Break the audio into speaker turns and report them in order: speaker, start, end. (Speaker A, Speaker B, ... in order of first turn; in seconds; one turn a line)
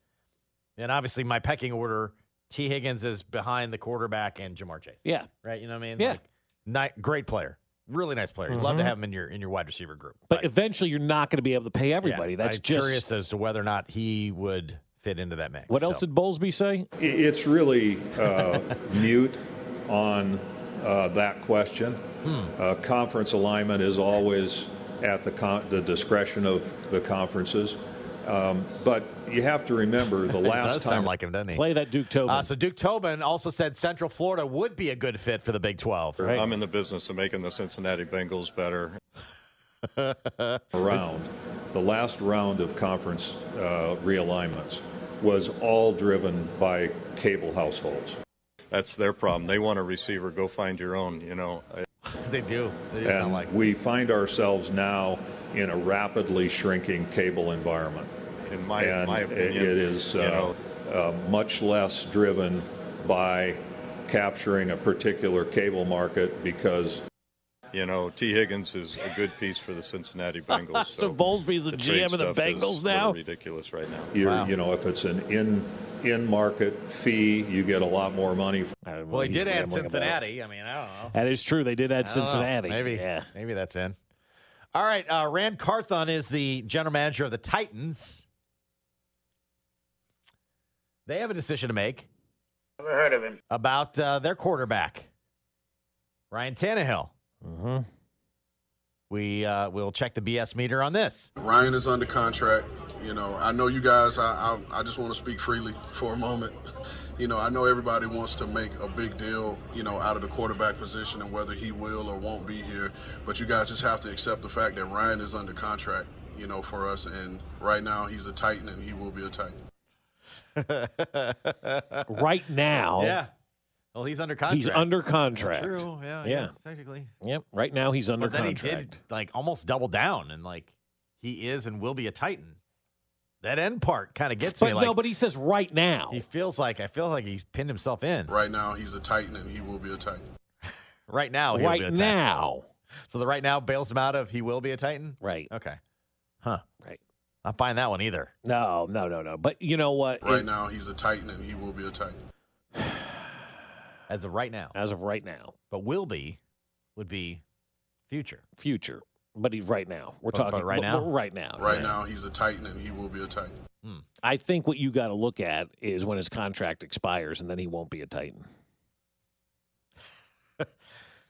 Speaker A: 0.8-10.5
Speaker B: 8.5-8.9
Speaker B: 10.3-13.1
Speaker A: 12.0-16.0
Speaker B: 15.7-16.9
Speaker C: 17.0-31.1
Speaker A: 18.3-18.8
Speaker A: 22.2-22.5
Speaker A: 30.3-31.6
Speaker B: 31.5-32.5
Speaker A: 32.2-36.3
Speaker B: 36.2-36.5
Speaker D: 36.2-39.0
Speaker A: 39.8-41.0
Speaker C: 40.7-48.2
Speaker D: 48.7-51.9
Speaker A: 52.0-53.5
Speaker C: 53.0-58.1
Speaker D: 58.4-60.5
Speaker C: 58.8-67.0
Speaker D: 67.7-74.1
Speaker B: 70.5-73.2
Speaker C: 74.1-78.7
Speaker A: 74.2-74.5
Speaker B: 78.8-80.2
Speaker A: 79.1-81.1
Speaker B: 81.1-83.3
Speaker A: 82.0-84.0
Speaker A: 84.7-88.2
Speaker A: 91.0-92.1
Speaker A: 93.5-95.1
Speaker A: 96.3-97.1
Speaker B: 97.4-97.9
Speaker A: 99.1-101.3
Speaker E: 101.4-106.6
Speaker E: 107.2-119.6
Speaker A: 120.5-122.2
Speaker B: 122.1-123.2
Speaker A: 123.0-123.3
Speaker A: 123.9-127.1
Speaker B: 124.5-126.5
Speaker B: 127.2-129.0
Speaker A: 128.2-132.6
Speaker A: 133.4-135.0
Speaker B: 134.4-136.2
Speaker A: 136.1-138.3
Speaker E: 138.3-140.2
Speaker A: 141.1-142.2
Speaker B: 141.5-142.7
Speaker A: 143.0-145.8
Speaker B: 145.2-145.5
Speaker A: 147.4-148.3
Speaker B: 148.4-150.5
Speaker E: 150.2-152.2
Speaker B: 152.8-153.2
Speaker A: 154.1-154.7
Speaker B: 154.7-155.5
Speaker A: 155.7-156.4
Speaker A: 156.9-157.4
Speaker A: 158.1-158.4
Speaker B: 158.6-162.0
Speaker A: 160.3-161.1
Speaker E: 161.6-163.6
Speaker B: 164.2-168.5